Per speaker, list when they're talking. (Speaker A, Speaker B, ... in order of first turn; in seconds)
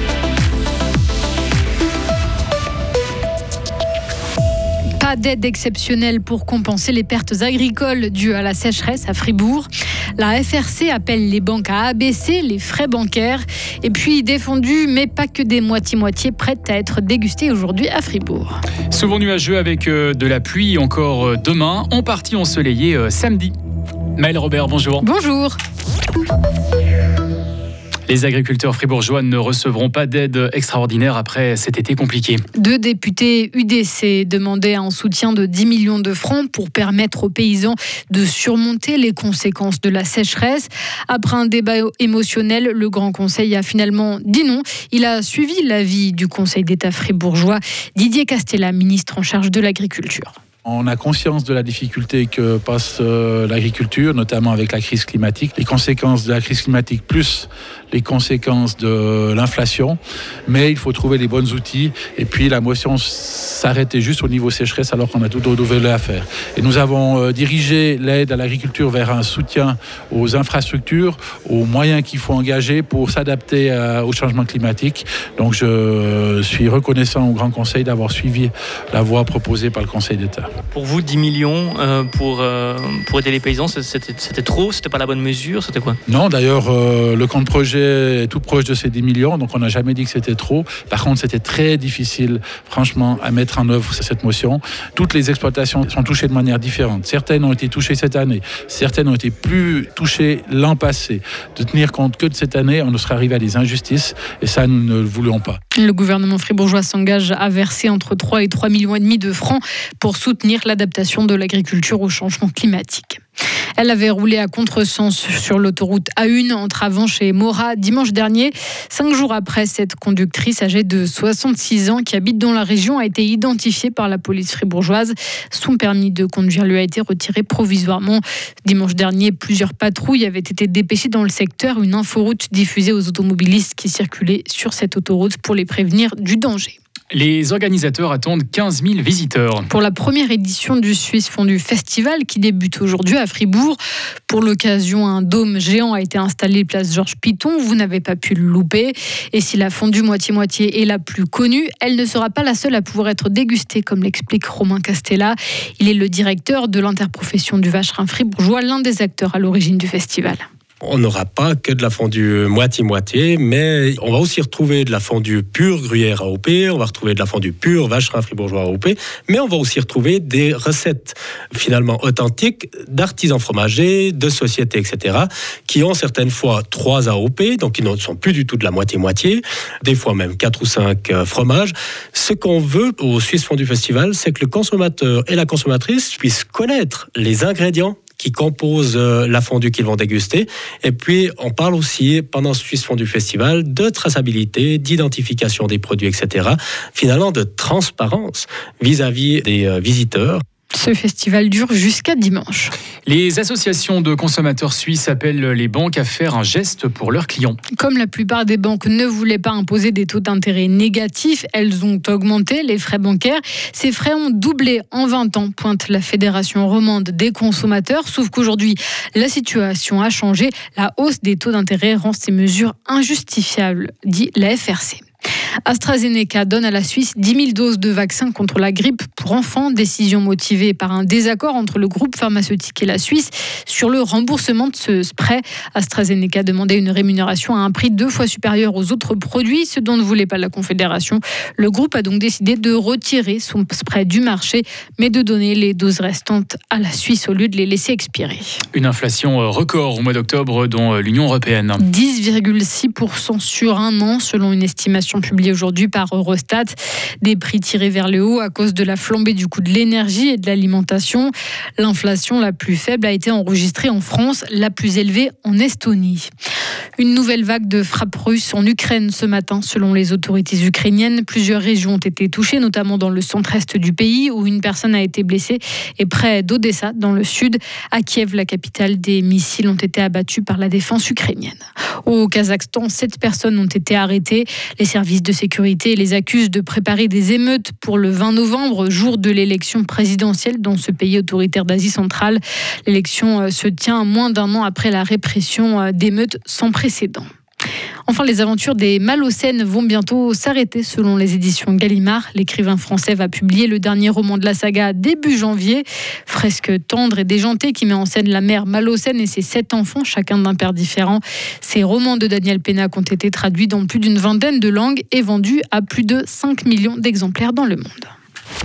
Speaker A: 5.0-18.6, 25.0-25.6, 32.6-50.4, 105.7-113.2, 113.8-136.8, 139.7-160.5, 200.7-202.7, 207.8-225.0, 225.7-248.6, 251.8-266.3, 267.0-297.3, 298.1-318.1
Speaker B: 18.9-23.5, 24.2-25.0, 28.1-32.4, 137.1-139.7, 203.1-207.6, 248.7-251.8
Speaker C: 50.6-80.5, 86.1-105.6
Speaker D: 80.7-86.0
Speaker E: 160.8-200.4